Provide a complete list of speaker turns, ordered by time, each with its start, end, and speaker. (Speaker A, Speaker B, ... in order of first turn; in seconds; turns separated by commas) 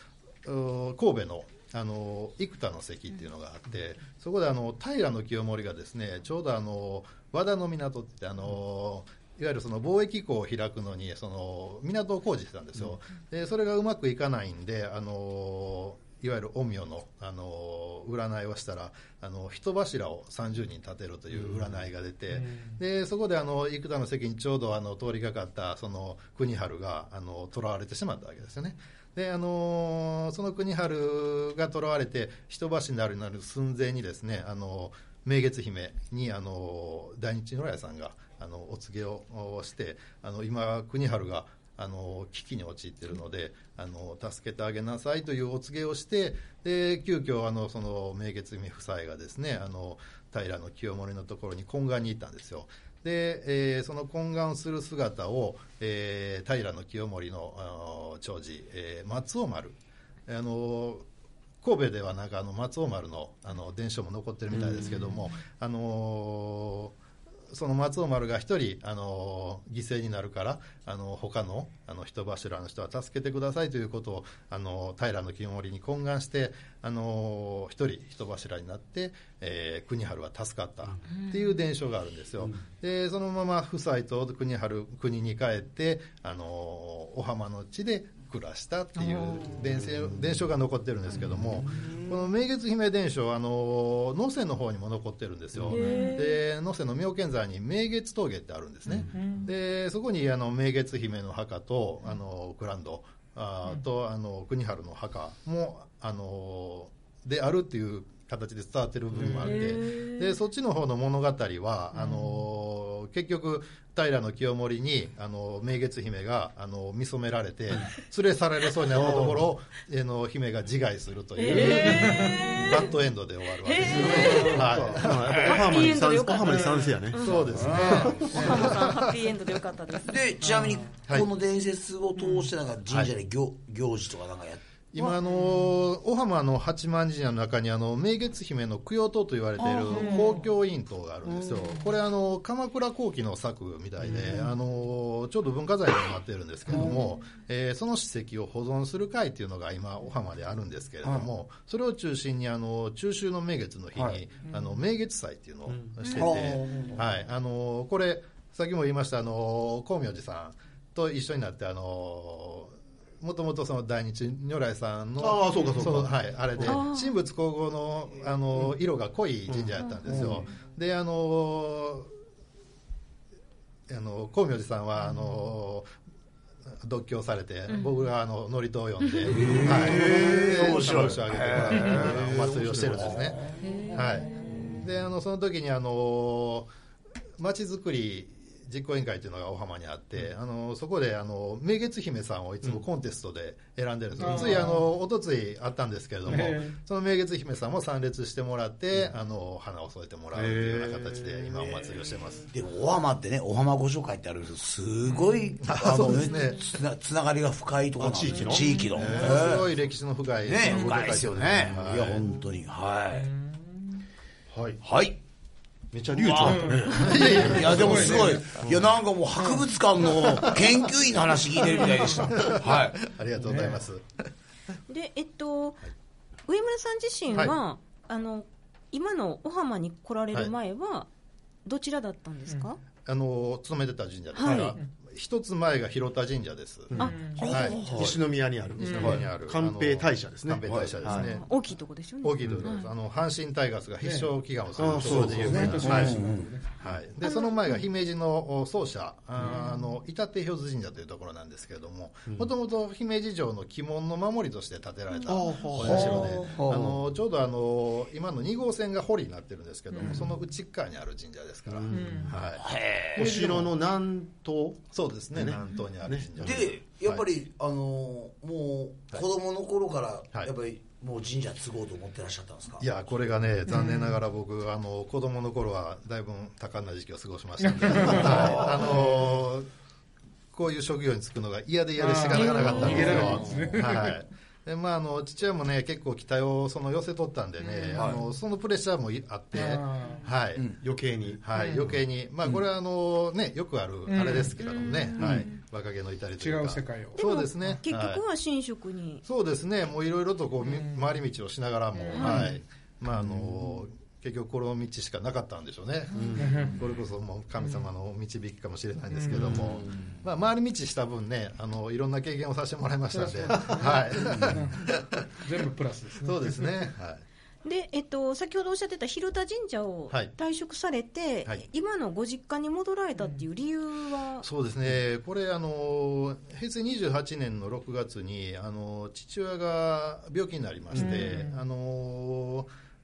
Speaker A: 0.5-61.1, Speaker B: 21.3-21.7, Speaker A: 61.6-67.0, Speaker B: 64.6-64.9, Speaker A: 67.5-125.3, Speaker C: 95.7-96.4, Speaker D: 95.8-96.2, Speaker B: 98.9-99.2, Speaker D: 99.1-99.5, Speaker B: 109.2-109.5, Speaker C: 109.4-110.3, Speaker B: 119.0-119.4, Speaker C: 121.4-122.9, Speaker D: 121.9-122.3, Speaker C: 123.6-130.2, Speaker E: 123.8-125.6, Speaker B: 124.1-128.7, Speaker A: 127.2-129.1, Speaker E: 127.6-128.5, Speaker E: 130.1-135.1, Speaker D: 130.4-130.8, Speaker A: 134.9-172.1, Speaker C: 139.8-140.1, Speaker B: 155.7-155.9, Speaker C: 156.0-156.3, Speaker E: 156.2-157.0, Speaker B: 165.2-166.8, Speaker C: 166.6-167.1, Speaker B: 169.5-170.4, Speaker A: 173.9-175.9, Speaker A: 176.8-183.4, Speaker C: 177.7-178.0, Speaker E: 179.3-183.7, Speaker B: 179.6-183.4, Speaker C: 183.6-184.3, Speaker A: 183.9-186.7, Speaker A: 187.4-202.5, Speaker D: 194.2-194.8, Speaker D: 196.3-196.8, Speaker B: 200.3-201.7, Speaker E: 202.5-209.7, Speaker A: 205.6-206.7, Speaker B: 208.0-209.6, Speaker A: 208.9-212.3, Speaker E: 210.4-213.3, Speaker D: 213.3-214.0, Speaker B: 214.5-214.8, Speaker E: 214.8-215.2, Speaker B: 215.9-218.8, Speaker E: 216.2-223.0, Speaker D: 216.4-216.9, Speaker A: 216.9-218.3, Speaker D: 217.7-218.6, Speaker A: 222.4-224.1, Speaker D: 223.4-223.8, Speaker C: 224.9-225.8, Speaker C: 226.5-231.1, Speaker A: 227.3-227.6, Speaker C: 231.7-232.8, Speaker A: 233.1-238.2, Speaker C: 234.3-234.8, Speaker B: 236.9-241.3, Speaker C: 236.9-237.8, Speaker D: 237.1-237.4, Speaker E: 237.4-238.2, Speaker A: 238.8-241.6, Speaker D: 238.8-239.2, Speaker E: 240.7-240.9, Speaker C: 241.1-242.9, Speaker A: 242.2-262.6, Speaker D: 244.0-244.3, Speaker B: 244.8-246.1, Speaker D: 245.1-246.7, Speaker E: 245.1-246.5, Speaker C: 247.2-247.8, Speaker B: 255.3-256.4, Speaker E: 255.8-257.0, Speaker B: 260.0-260.3, Speaker B: 261.7-262.4, Speaker E: 262.6-263.5, Speaker B: 263.2-266.6, Speaker A: 263.2-263.7, Speaker A: 264.9-267.2, Speaker E: 266.4-272.9, Speaker A: 272.8-279.7, Speaker D: 273.7-274.1, Speaker D: 277.6-279.2, Speaker A: 280.5-290.7, Speaker D: 282.0-284.2, Speaker C: 282.6-283.0, Speaker B: 282.9-283.7, Speaker D: 287.6-288.2, Speaker D: 289.5-290.3, Speaker B: 290.8-291.5, Speaker A: 291.4-298.2, Speaker D: 291.5-291.9, Speaker D: 294.1-294.6, Speaker C: 294.6-295.6, Speaker D: 295.2-295.5, Speaker D: 296.4-297.2, Speaker C: 297.2-299.2, Speaker A: 299.2-315.3, Speaker D: 302.0-302.5, Speaker C: 302.1-302.5, Speaker B: 303.2-303.6, Speaker B: 306.1-306.7, Speaker D: 306.4-306.8, Speaker D: 309.1-309.6, Speaker B: 309.3-310.1, Speaker D: 313.1-316.8, Speaker A: 316.2-317.2, Speaker C: 317.6-324.5, Speaker D: 323.2-323.4, Speaker A: 324.4-332.7, Speaker D: 330.9-331.5, Speaker C: 331.0-331.3